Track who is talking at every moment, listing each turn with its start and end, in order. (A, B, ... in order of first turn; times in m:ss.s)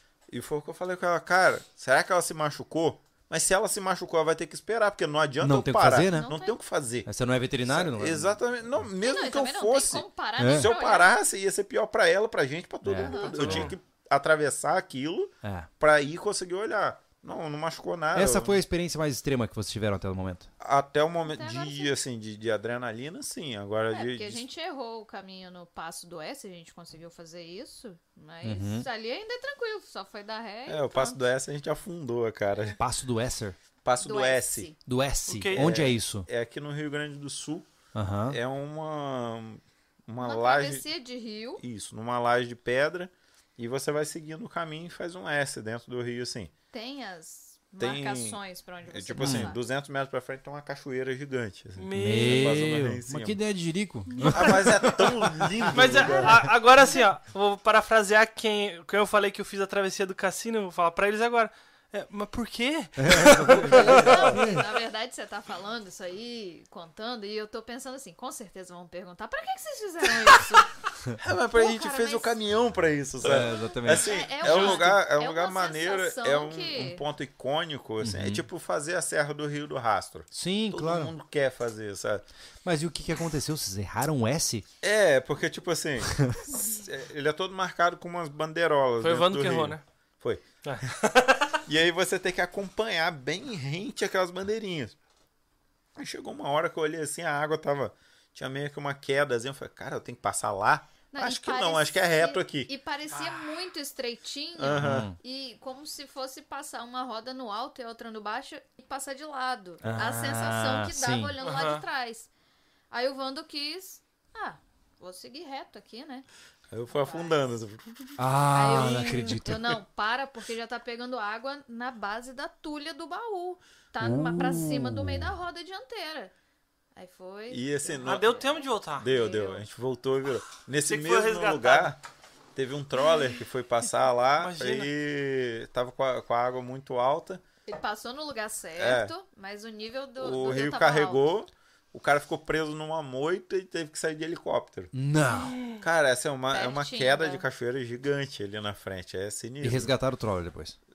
0:00.3-0:07.1 A
0:05.4-0:06.3 B
0:06.1-0:06.6 C
0:07.0-0:08.8 B
0:07.7-0:18.6 A
0:09.0-0:11.1 C
0:10.4-0:10.7 B
0:12.8-0:13.8 B
0:13.0-0:13.4 C
0:13.3-0:13.8 D
0:15.4-0:15.7 B
0:18.1-0:20.5 B
0:20.6-0:24.4 A
0:21.2-0:22.0 C
0:23.9-0:31.2 C
0:28.4-0:28.9 B
0:30.7-0:32.8 A
0:32.8-0:33.6 B
0:33.8-0:34.7 A
0:34.0-0:34.8 C
0:34.9-0:36.3 B
0:35.3-0:35.8 D
0:35.5-0:37.7 A
0:37.9-0:38.4 B
0:38.3-0:40.9 A
0:40.2-0:41.6 C
0:41.6-0:46.5 A
0:46.7-0:49.6 C
0:47.8-0:53.4 A
0:49.2-0:49.5 B
0:51.8-0:52.7 D
0:52.0-0:56.5 B
0:54.2-0:56.4 A
0:55.7-1:04.5 D
1:03.0-1:04.6 B
1:03.6-1:10.7 C
1:03.7-1:04.4 A
1:11.2-1:22.3 A
1:11.5-1:12.3 C
1:13.2-1:14.1 B
1:13.3-1:17.0 C
1:14.4-1:14.9 D
1:18.0-1:18.4 B
1:20.3-1:21.1 B
1:22.6-1:24.7 B
1:24.8-1:30.4 A
1:26.2-1:26.4 B
1:29.0-1:29.8 D
1:30.6-1:31.6 D
1:31.7-1:35.0 A
1:36.0-1:42.7 A
1:41.1-1:52.3 C
1:43.1-1:43.6 D
1:44.6-1:45.1 A
1:44.7-1:45.2 B
1:49.8-1:51.3 B
1:51.4-1:51.8 D
1:52.9-1:56.3 C
1:56.7-1:58.3 A
1:56.9-1:57.4 C
1:58.2-1:59.8 B
1:58.5-2:06.3 C
2:04.0-2:05.3 B
2:07.0-2:09.6 C
2:07.5-2:12.0 A
2:07.9-2:09.1 D
2:10.8-2:11.9 D
2:12.6-2:17.4 A
2:14.4-2:14.9 D
2:17.7-2:21.2 C
2:18.8-2:19.1 A
2:20.2-2:24.9 A
2:24.9-2:25.6 B
2:25.3-2:25.8 D
2:25.8-2:29.9 A
2:26.5-2:27.4 C
2:29.6-2:30.8 B